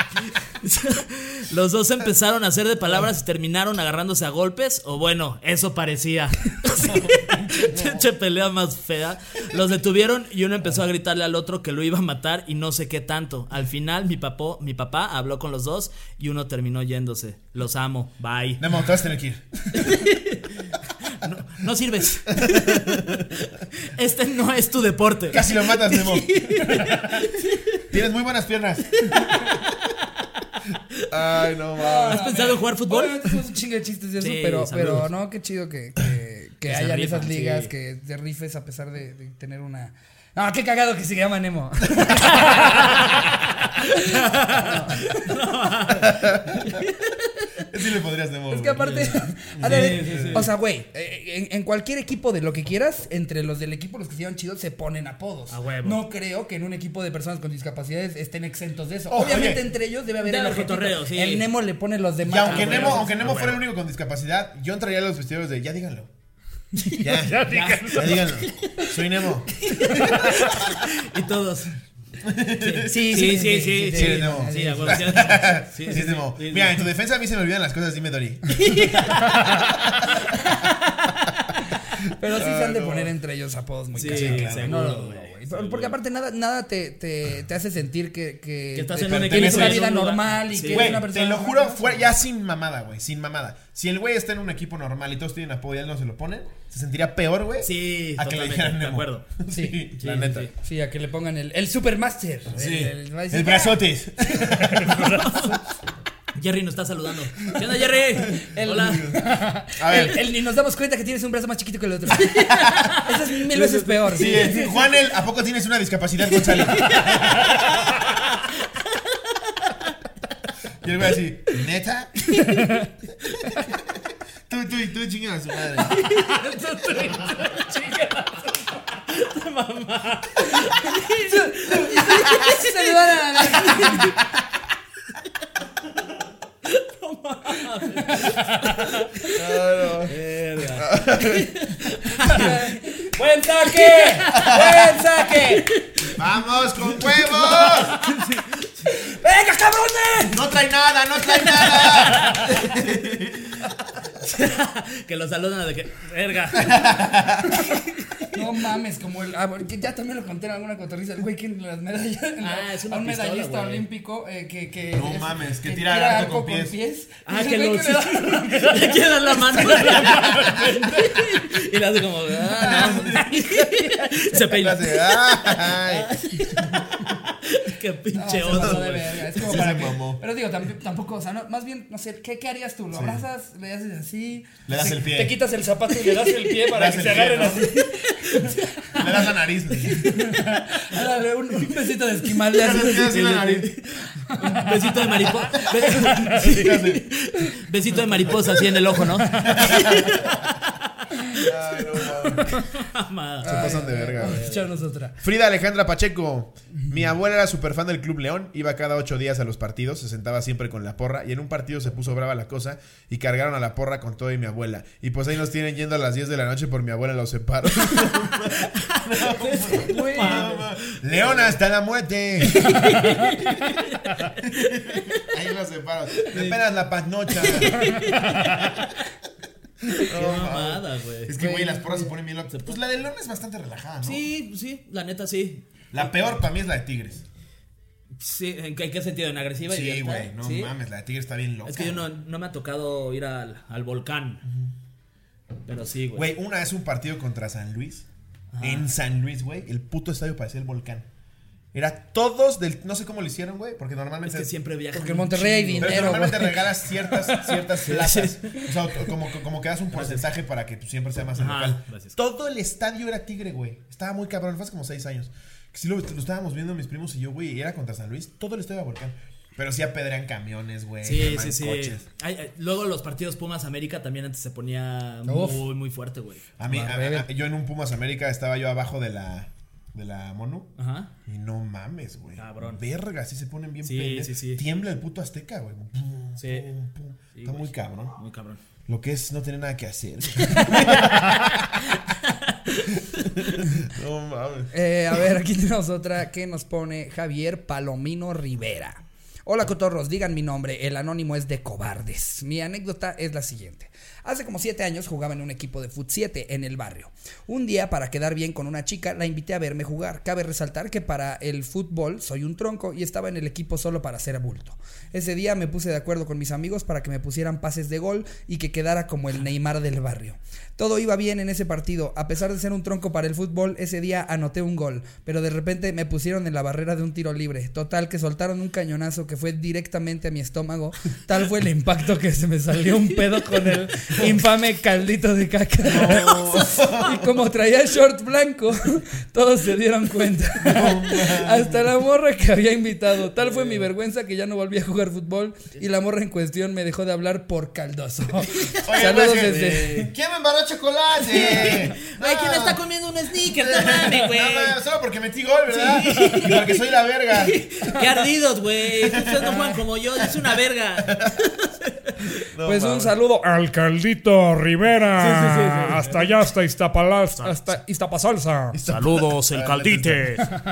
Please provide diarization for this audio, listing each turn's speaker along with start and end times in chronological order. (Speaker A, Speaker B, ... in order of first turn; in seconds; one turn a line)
Speaker A: 0.3-18.6
Speaker B: 6.9-8.0
Speaker B: 18.6-19.4
Speaker A: 19.7-27.9
Speaker B: 22.3-23.3
Speaker B: 25.3-26.3
Speaker B: 27.9-29.2
Speaker A: 29.0-29.6
Speaker B: 31.1-32.3
Speaker C: 31.8-43.3
Speaker A: 32.0-33.4
Speaker A: 34.2-35.1
Speaker A: 36.6-37.7
Speaker A: 42.4-47.7
Speaker C: 43.8-45.2
Speaker B: 46.0-46.7
Speaker B: 47.7-50.5
Speaker C: 48.5-63.2
Speaker A: 48.8-50.5
Speaker A: 55.5-56.0
Speaker B: 59.1-59.7
Speaker A: 60.2-61.5
Speaker B: 62.2-66.1
Speaker A: 62.4-63.6
Speaker B: 67.0-70.5
Speaker D: 67.2-68.2
Speaker A: 67.4-68.9
Speaker A: 69.6-71.8
Speaker B: 72.2-73.3
Speaker A: 72.6-76.8
Speaker C: 72.8-75.4
Speaker B: 73.9-78.9
Speaker A: 78.5-81.3
Speaker B: 79.5-80.2
Speaker C: 82.1-92.1
Speaker B: 82.3-83.1
Speaker A: 83.9-85.9
Speaker B: 84.1-84.8
Speaker A: 88.7-91.0
Speaker B: 89.0-89.9
Speaker B: 90.7-100.5
Speaker A: 97.6-99.2
Speaker C: 99.5-99.9
Speaker A: 100.0-100.5
Speaker C: 100.5-105.6
Speaker B: 102.5-105.2
Speaker A: 104.8-105.6
Speaker A: 106.3-109.2
Speaker C: 108.2-114.7
Speaker B: 108.8-109.2
Speaker B: 109.8-110.2
Speaker A: 112.2-114.7
Speaker B: 112.5-112.9
Speaker B: 114.1-117.7
Speaker A: 116.4-119.9
Speaker B: 120.8-122.2
Speaker A: 122.3-122.6
Speaker C: 122.5-122.8
Speaker B: 124.5-126.0
Speaker A: 125.7-134.2
Speaker C: 130.5-134.2
Speaker A: 136.6-139.4
Speaker C: 137.9-138.8
Speaker B: 139.3-140.2
Speaker A: 140.1-142.8
Speaker B: 140.7-141.5
Speaker C: 142.2-145.7
Speaker A: 143.5-146.3
Speaker B: 144.3-144.8
Speaker B: 146.1-148.0
Speaker A: 146.9-148.9
Speaker C: 147.5-147.9
Speaker C: 148.8-150.5
Speaker B: 150.3-153.5
Speaker A: 151.4-152.7
Speaker A: 153.6-156.9
Speaker B: 156.6-157.7
Speaker A: 157.6-158.4
Speaker C: 158.3-171.1
Speaker A: 162.4-163.8
Speaker B: 164.9-166.7
Speaker A: 167.2-179.7
Speaker B: 169.7-170.6
Speaker C: 172.6-173.3
Speaker B: 172.6-173.6
Speaker B: 174.4-176.1
Speaker C: 178.1-189.2
Speaker B: 178.5-180.2
Speaker B: 182.9-183.2
Speaker B: 184.7-185.4
Speaker B: 186.7-187.7
Speaker A: 187.8-188.6
Speaker B: 188.9-190.0
Speaker C: 189.8-193.2
Speaker B: 192.5-193.7
Speaker A: 193.0-204.7
Speaker C: 194.2-194.8
Speaker B: 195.5-197.1
Speaker B: 198.2-200.5
Speaker B: 201.4-202.6
Speaker B: 203.4-204.5
Speaker C: 203.4-205.2
Speaker B: 205.2-223.0
Speaker A: 217.8-221.6
Speaker C: 219.8-220.6
Speaker A: 222.5-225.3
Speaker B: 224.4-228.7
Speaker A: 226.2-226.6
Speaker A: 227.3-229.0
Speaker A: 229.9-231.3
Speaker B: 230.0-234.3
Speaker C: 231.3-232.1
Speaker A: 232.5-232.8
Speaker A: 234.0-236.1
Speaker B: 235.9-237.2
Speaker A: 238.2-240.7
Speaker B: 239.7-242.1
Speaker A: 241.6-244.4
Speaker B: 244.4-244.7
Speaker A: 245.7-246.3
Speaker B: 246.1-248.1
Speaker A: 248.5-248.9
Speaker B: 248.6-251.1
Speaker B: 251.7-254.5
Speaker A: 254.2-256.4
Speaker C: 254.9-257.5
Speaker B: 255.8-272.0
Speaker A: 257.4-258.7
Speaker A: 259.9-260.3
Speaker A: 261.4-262.1
Speaker A: 271.0-276.5
Speaker C: 275.3-275.6
Speaker B: 276.6-280.7
Speaker C: 276.7-277.2
Speaker A: 280.8-281.1
Speaker B: 281.2-288.1
Speaker A: 282.4-282.8
Speaker A: 283.8-284.6
Speaker A: 286.4-286.7
Speaker A: 287.3-288.6
Speaker B: 288.9-292.0
Speaker A: 290.6-293.1
Speaker B: 293.1-294.7
Speaker C: 294.7-350.1
Speaker B: 335.8-337.4
Speaker B: 340.6-341.9
Speaker A: 343.4-343.9
Speaker B: 348.8-352.8
Speaker A: 351.2-354.8
Speaker B: 353.4-357.6
Speaker A: 355.7-356.8
Speaker A: 357.3-362.4
Speaker B: 358.9-359.6
Speaker B: 361.0-361.4
Speaker B: 362.4-363.1
Speaker C: 362.6-363.4
Speaker D: 363.4-370.4
Speaker A: 365.1-366.4
Speaker A: 367.3-367.7
Speaker C: 367.4-368.4
Speaker B: 368.7-370.4
Speaker A: 368.8-370.4